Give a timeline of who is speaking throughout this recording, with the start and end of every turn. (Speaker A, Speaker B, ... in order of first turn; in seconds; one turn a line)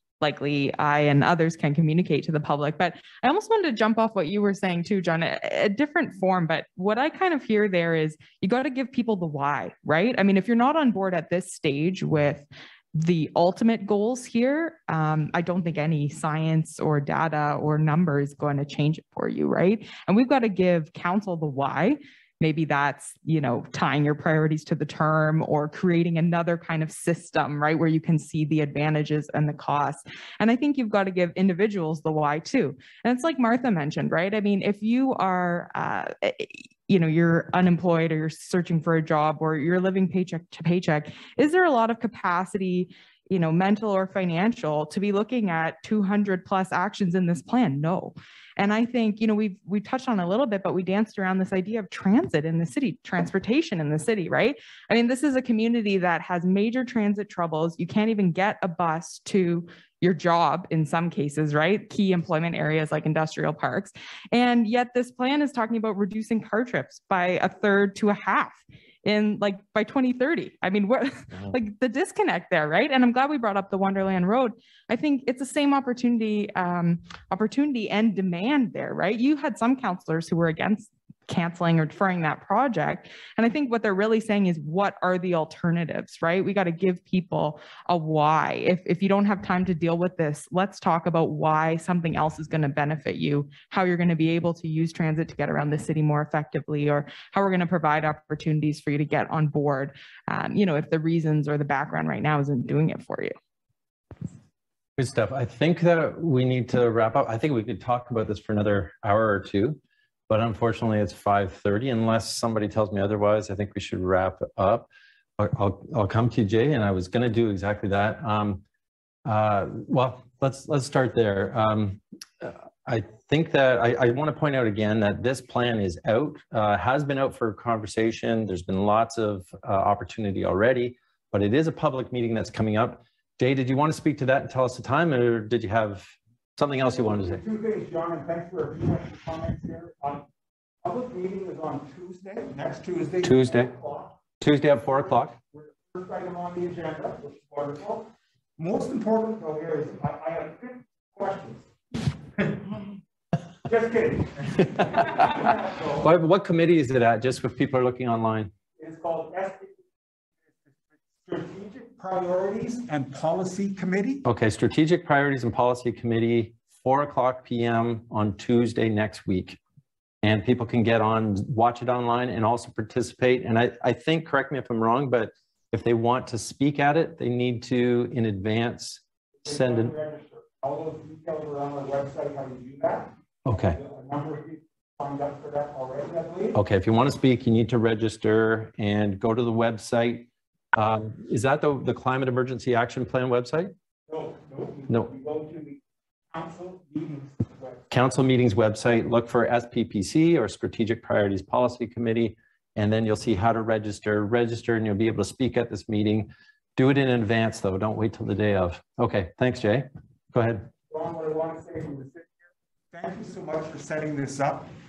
Speaker A: 0.2-103.3
Speaker B: 105.0-109.8
Speaker B: 110.3-114.9
Speaker B: 115.4-118.6
Speaker B: 119.2-137.4
Speaker C: 136.9-140.2
Speaker C: 140.8-144.2
Speaker B: 143.2-143.7
Speaker B: 144.4-145.3
Speaker C: 145.5-151.7
Speaker C: 153.6-156.1
Speaker B: 155.0-155.3
Speaker B: 156.0-158.5
Speaker C: 158.8-159.8
Speaker C: 161.2-164.2
Speaker B: 164.2-169.6
Speaker B: 170.2-179.9
Speaker C: 179.4-186.6
Speaker B: 183.4-183.8
Speaker B: 186.5-193.7
Speaker C: 194.1-197.8
Speaker B: 197.9-210.7
Speaker C: 210.9-212.4
Speaker C: 212.9-214.7